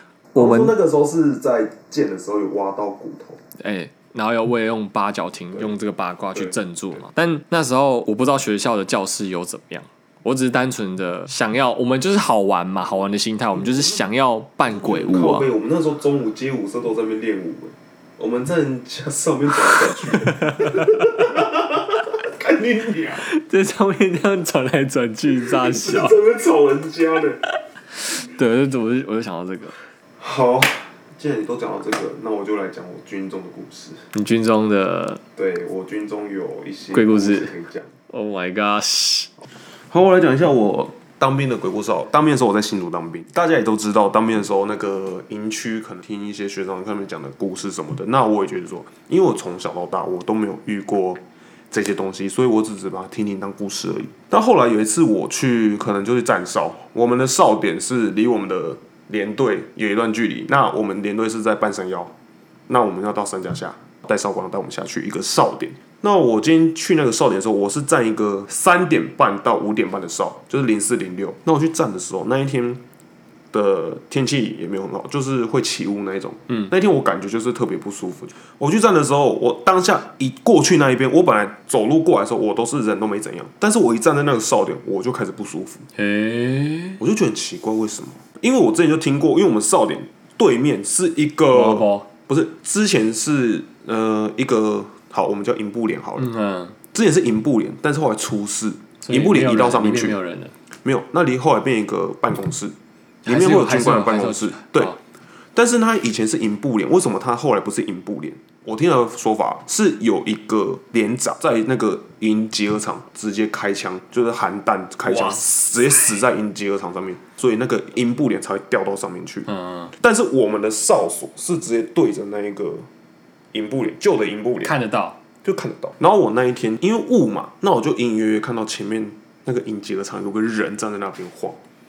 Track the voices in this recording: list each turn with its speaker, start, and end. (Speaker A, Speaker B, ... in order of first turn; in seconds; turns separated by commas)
Speaker A: 0.3-0.7, Speaker B: 0.3-3.4, Speaker A: 3.6-15.5, Speaker B: 14.7-23.2, Speaker A: 20.3-21.1, Speaker A: 23.2-26.1, Speaker B: 25.4-27.4, Speaker A: 28.0-29.8, Speaker B: 30.2-34.1, Speaker A: 34.1-35.2, Speaker B: 35.4-37.9, Speaker A: 36.9-37.5, Speaker A: 38.1-39.3, Speaker B: 39.9-62.1, Speaker B: 62.7-72.8, Speaker B: 73.5-85.8, Speaker A: 85.9-87.0, Speaker B: 87.0-96.3, Speaker A: 91.5-92.1, Speaker A: 96.2-96.8, Speaker B: 96.9-100.2, Speaker A: 99.0-100.5, Speaker B: 100.7-104.9, Speaker A: 103.2-105.0, Speaker B: 105.5-122.9, Speaker A: 115.0-115.4, Speaker A: 119.5-119.9, Speaker B: 123.5-124.7, Speaker A: 124.6-125.2, Speaker B: 125.4-131.6